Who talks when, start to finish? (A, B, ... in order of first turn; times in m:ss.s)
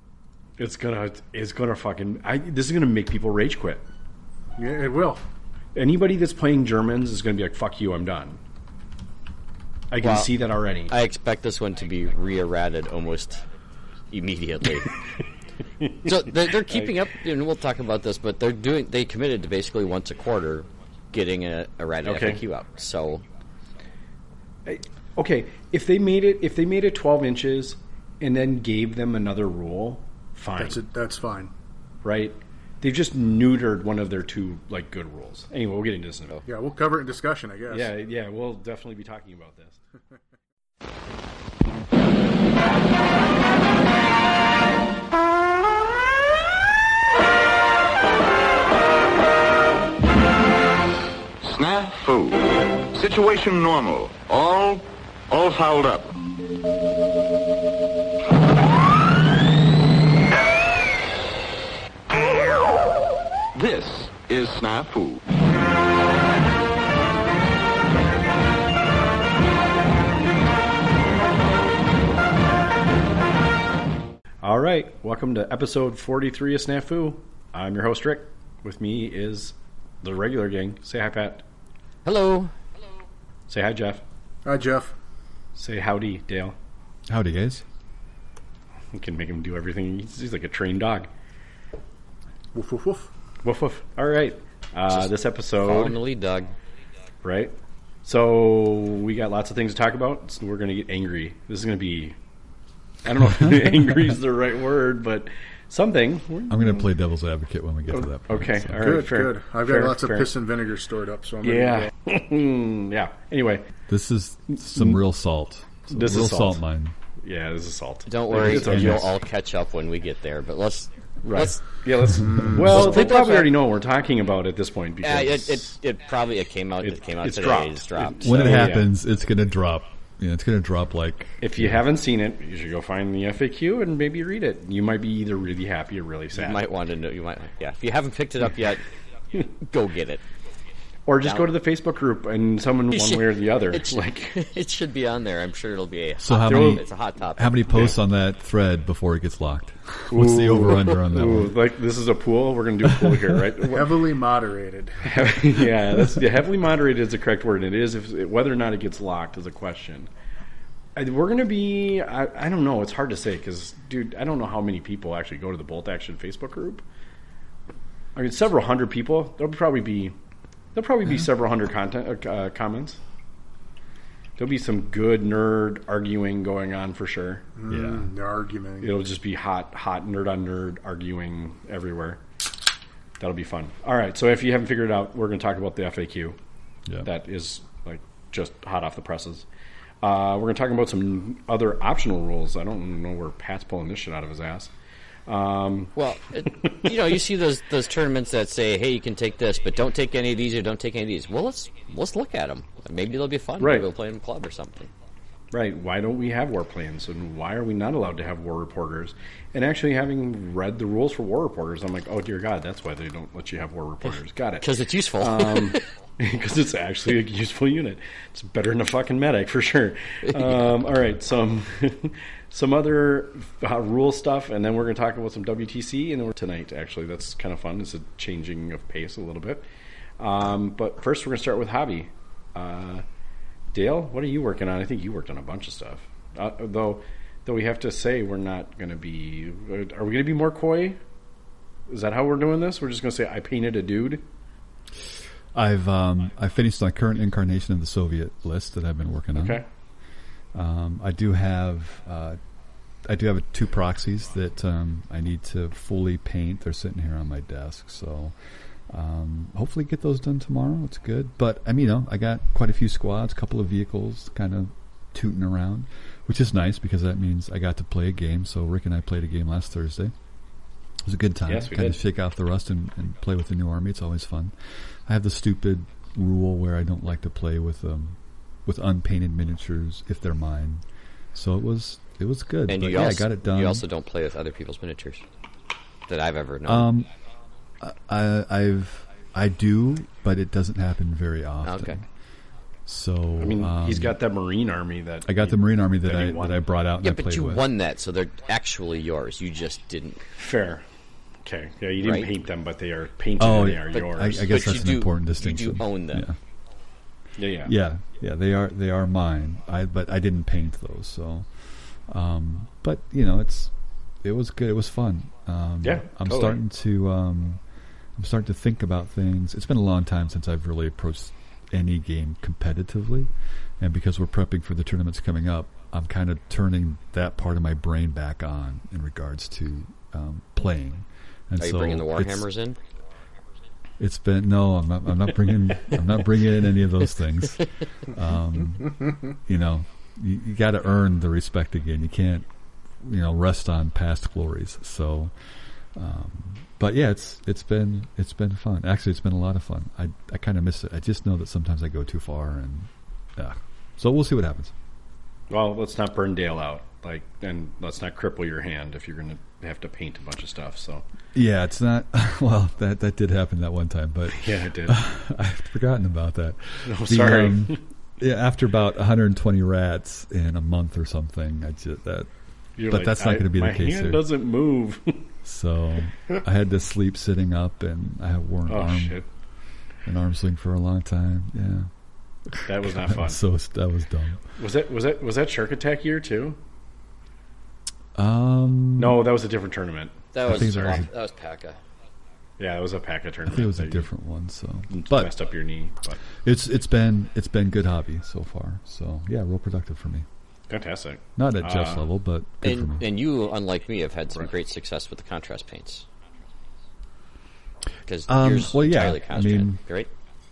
0:00.6-0:03.9 A
0:04.6-0:05.2 B
0:05.7-0:08.4 A
0:09.9-0:10.9 A
0:10.0-0:10.3 C
0:10.9-0:13.4 C
0:14.1-0:14.9 C
0:15.8-0:16.1 A
0:16.0-0:23.2 C
0:22.0-0:22.4 A
0:24.6-0:30.8 A
0:30.6-0:31.5 B
0:32.0-0:36.4 A
0:36.4-0:37.9 B
0:37.7-0:39.8 A
0:51.4-0:56.1 D
1:03.5-1:05.2 D
1:14.4-1:21.4 A
1:22.0-1:22.5 C
1:23.5-1:24.0 A
1:24.4-1:24.9 B
1:25.5-1:26.6 A
1:27.1-1:27.6 E
1:28.9-1:31.1 A
1:32.5-1:33.1 B
1:33.4-1:36.0 A
1:34.9-1:36.5 C
1:37.2-1:42.2 A
1:43.0-1:46.8 A
1:43.2-1:44.0 E
1:46.5-1:48.7 E
1:47.9-1:50.3 A
1:48.7-1:51.9 B
1:51.4-1:53.7 A
1:53.9-1:56.9 E
1:54.5-1:55.0 A
1:55.9-1:56.6 A
1:57.2-1:59.1 A
1:58.1-2:01.8 C
1:58.5-1:59.0 E
2:01.2-2:05.7 A
2:02.2-2:02.7 B
2:02.6-2:03.5 C
2:05.0-2:08.7 C
2:06.8-2:08.9 A
2:08.2-2:11.8 E
2:11.4-2:16.6 A
2:16.3-2:18.8 C
2:19.4-2:20.2 C
2:21.1-2:24.4 A
2:21.2-2:21.5 C
2:22.9-2:27.8 C
2:26.2-2:31.5 E
2:26.4-2:26.8 A
2:30.1-2:33.9 A
2:33.7-2:35.5 B
2:35.0-2:40.1 A
2:41.0-2:46.8 A
2:48.1-2:50.1 A
2:50.7-2:53.0 A
2:54.4-2:57.4 A
2:57.6-2:59.0 B
2:57.7-2:58.1 E
2:58.8-3:02.2 A
3:03.2-3:06.4 A
3:07.0-3:09.4 A
3:10.0-3:14.7 A
3:15.3-3:15.9 A
3:16.0-3:24.9 C
3:16.6-3:16.9 A
3:23.6-3:23.9 A
3:25.5-3:49.6 A
3:34.6-3:35.8 C
3:40.3-3:40.7 C
3:50.2-3:53.0 A
3:53.7-4:01.0 A
4:01.9-4:04.2 A
4:05.5-4:09.6 E
4:09.3-4:09.7 A
4:10.5-4:12.4 E
4:13.0-4:18.3 E
4:18.9-4:30.1 E
4:31.0-4:34.5 E
4:31.5-4:32.0 A
4:35.0-4:40.8 E
4:41.3-4:43.8 E
4:42.7-4:45.2 C
4:46.1-4:46.9 C
4:46.6-4:47.1 E
4:47.8-4:52.0 E
4:51.6-4:52.0 C
4:52.8-4:54.1 E
4:53.4-4:56.6 A
4:55.2-4:57.6 E
4:57.0-5:00.2 C
5:00.4-5:00.8 A
5:01.4-5:04.5 A
5:02.0-5:02.3 C
5:03.4-5:06.4 E
5:03.9-5:06.3 C
5:07.4-5:07.7 A
5:07.6-5:11.5 E
5:12.1-5:13.7 E
5:14.2-5:17.6 E
5:15.8-5:16.6 A
5:18.2-5:32.5 E
5:31.6-5:32.8 C
5:34.0-5:42.5 E
5:43.0-5:45.3 E
5:45.9-5:54.7 E
5:55.5-6:01.0 A
6:01.3-6:12.3 E
6:04.3-6:05.0 A
6:06.8-6:07.8 A
6:12.8-6:15.3 A
6:12.9-6:14.3 E
6:15.4-6:19.2 E
6:18.7-6:19.3 A
6:20.0-6:21.9 E
6:22.5-6:24.4 E
6:22.6-6:23.4 A
6:24.6-6:26.6 A
6:28.1-6:29.3 E
6:29.0-6:31.0 A
6:30.3-6:31.8 C
6:30.4-6:31.1 E
6:32.6-6:34.1 A
6:33.5-6:35.3 E
6:34.9-6:36.2 A
6:36.4-6:40.2 E
6:40.7-6:42.1 A
6:41.4-6:43.1 E
6:42.6-6:46.0 C
6:48.1-6:50.1 C
6:48.3-6:49.8 E